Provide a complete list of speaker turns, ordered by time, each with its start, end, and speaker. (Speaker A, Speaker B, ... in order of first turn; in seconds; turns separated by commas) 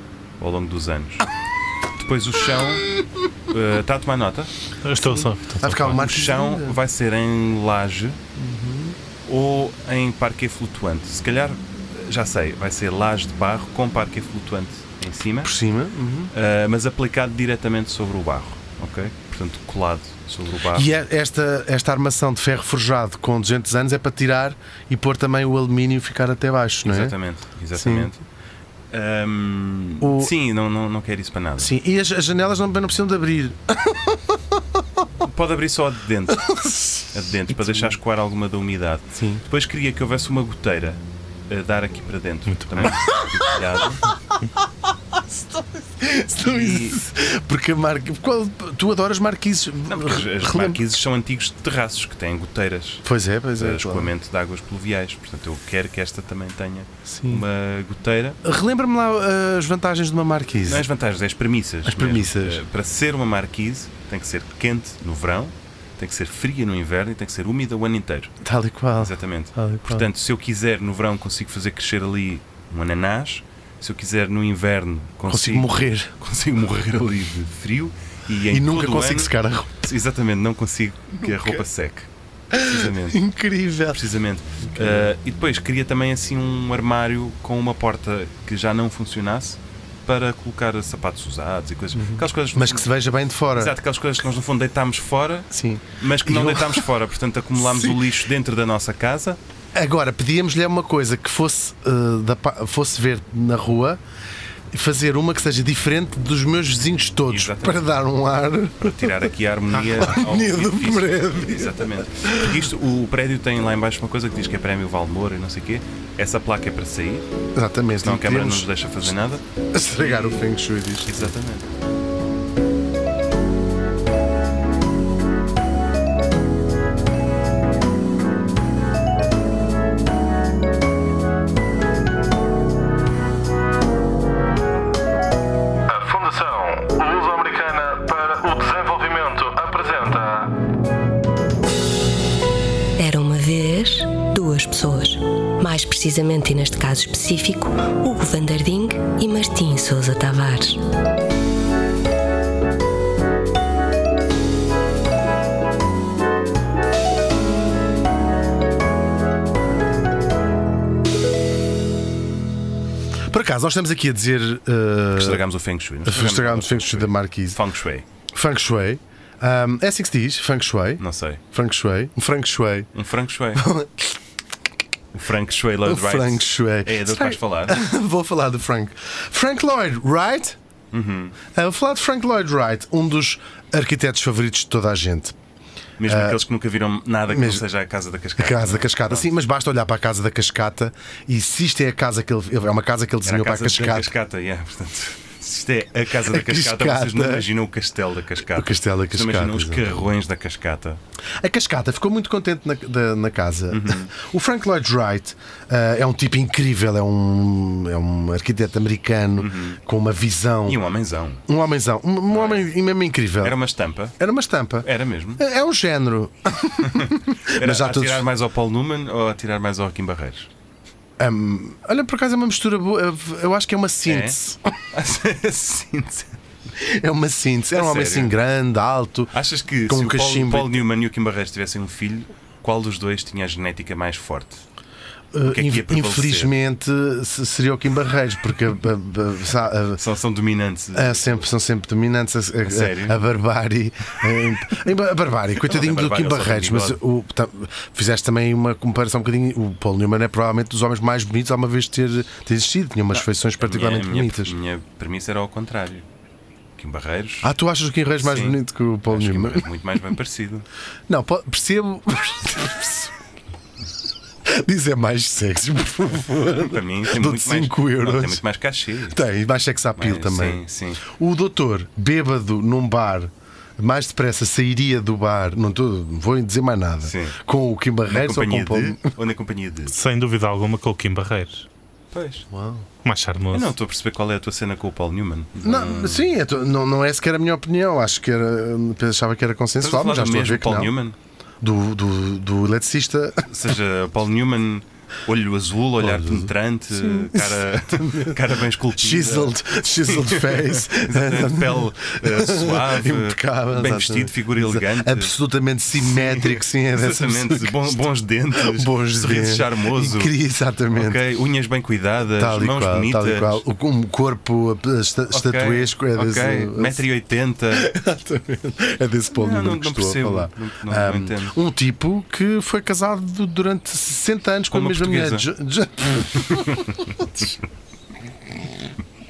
Speaker A: 0.4-1.3, Speaker A: 1.9-2.9, Speaker A: 3.5-4.5, Speaker B: 4.8-6.0, Speaker C: 5.6-6.8, Speaker A: 5.8-8.2, Speaker C: 8.4-9.0, Speaker A: 9.2-15.6, Speaker C: 15.4-16.3, Speaker A: 16.3-20.9, Speaker C: 20.7-27.2, Speaker A: 26.9-28.2, Speaker C: 27.8-28.1, Speaker A: 28.9-31.7, Speaker C: 30.0-30.3, Speaker C: 31.6-34.8, Speaker A: 35.2-36.5, Speaker C: 36.3-37.9, Speaker A: 37.1-44.1, Speaker C: 39.1-39.4, Speaker B: 42.5-43.1, Speaker C: 43.0-43.8, Speaker C: 44.9-50.8, Speaker A: 46.4-47.0, Speaker A: 49.9-53.0, Speaker C: 53.0-54.1, Speaker A: 53.6-58.4, Speaker C: 57.1-57.5, Speaker C: 58.4-60.9, Speaker A: 60.6-68.3, Speaker C: 61.9-62.6, Speaker C: 68.4-70.1, Speaker A: 69.0-83.2, Speaker C: 75.3-76.1, Speaker C: 78.5-79.8, Speaker C: 81.2-81.6, Speaker C: 82.5-84.0, Speaker A: 83.9-92.9, Speaker C: 84.8-85.0, Speaker C: 92.0-93.7, Speaker A: 93.5-99.4, Speaker C: 95.5-96.8, Speaker C: 97.6-98.0, Speaker C: 99.8-104.0, Speaker C: 104.7-112.6, Speaker A: 107.3-107.9, Speaker A: 108.8-117.3, Speaker C: 117.5-118.7, Speaker A: 118.0-119.4, Speaker C: 119.7-121.3, Speaker A: 120.0-120.5, Speaker A: 121.1-121.7, Speaker D: 135.9-140.6, Speaker E: 143.0-150.8, Speaker C: 163.3-165.4, Speaker A: 165.1-168.1, Speaker C: 166.1-167.6, Speaker C: 168.3-172.9, Speaker A: 171.0-171.4, Speaker A: 172.9-173.7, Speaker C: 173.6-174.2, Speaker A: 175.1-177.8, Speaker C: 175.8-180.6, Speaker A: 180.9-181.4, Speaker C: 181.5-185.4, Speaker A: 186.0-189.3, Speaker C: 186.1-186.4, Speaker C: 187.3-187.7, Speaker C: 188.4-194.1, Speaker A: 193.2-201.0, Speaker C: 196.2-197.5, Speaker C: 198.5-200.1, Speaker C: 201.4-210.8, Speaker A: 203.7-204.1, Speaker A: 209.4-209.8, Speaker A: 210.7-211.4, Speaker C: 211.5-213.6, Speaker A: 212.3-212.7, Speaker A: 213.4-214.2, Speaker C: 214.2-218.2, Speaker A: 214.8-215.4, Speaker A: 216.8-220.5, Speaker C: 221.2-224.6, Speaker A: 224.1-224.4, Speaker A: 224.9-226.4, Speaker C: 226.8-229.3, Speaker A: 227.7-228.3, Speaker A: 229.3-234.6, Speaker C: 229.9-230.8, Speaker C: 235.3-240.0, Speaker A: 235.4-236.5, Speaker A: 240.0-241.4, Speaker C: 240.9-254.6, Speaker A: 242.6-243.2, Speaker A: 245.6-247.0, Speaker A: 253.2-256.1, Speaker A: 256.8-257.5, Speaker C: 257.4-259.7, Speaker A: 258.2-260.7, Speaker C: 261.1-263.1, Speaker C: 264.4-268.4, Speaker A: 266.4-269.2, Speaker C: 269.1-279.1, Speaker A: 270.0-271.0, Speaker A: 277.0-277.4, Speaker A: 278.1-280.0, Speaker B: 279.9-281.7, Speaker A: 282.1-282.4, Speaker C: 282.5-282.9, Speaker B: 283.0-283.7, Speaker A: 283.5-286.3, Speaker C: 285.6-290.9, Speaker A: 289.8-291.2, Speaker C: 291.6-293.5, Speaker A: 293.5-299.6, Speaker C: 296.0-298.4, Speaker C: 299.0-308.0, Speaker A: 300.1-305.3, Speaker A: 305.9-310.3, Speaker C: 308.5-311.2, Speaker A: 310.9-313.6, Speaker C: 312.4-317.0, Speaker A: 315.3-317.9, Speaker C: 317.7-327.4, Speaker A: 319.3-321.6, Speaker A: 324.7-325.5, Speaker A: 326.4-327.5